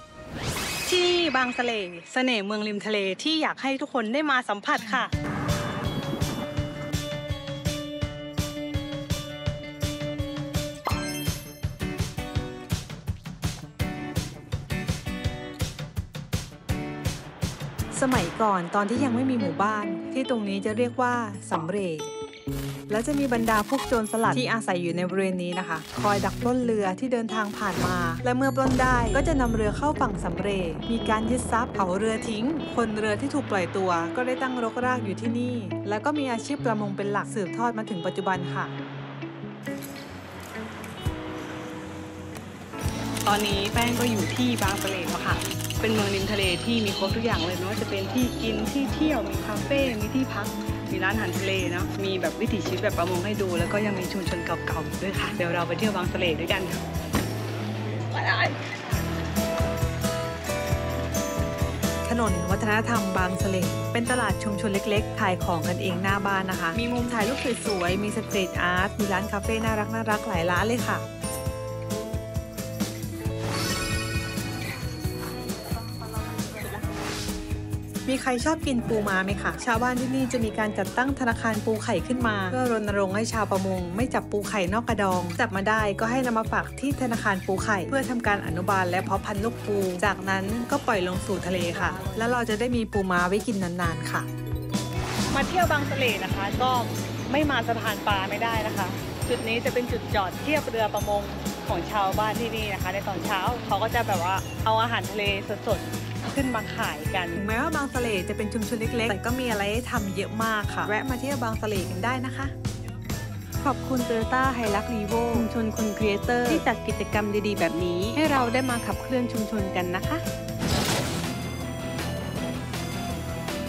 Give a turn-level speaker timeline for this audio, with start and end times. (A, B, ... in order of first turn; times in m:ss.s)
0:00.9-0:03.8 A
0:02.4-0:02.8 B
0:03.8-0:05.0 B
0:04.6-0:04.9 A
0:17.9-0:22.1 A
0:22.9-0:38.7 A
0:43.2-0:56.8 B
0:58.1-0:58.6 B
1:02.0-1:11.0 A
1:06.7-1:07.0 B
1:18.0-1:34.3 A
1:31.6-1:32.2 B
1:35.3-1:47.5 B
1:47.3-1:52.5 A
1:53.6-2:00.2 C
1:56.4-1:56.6 A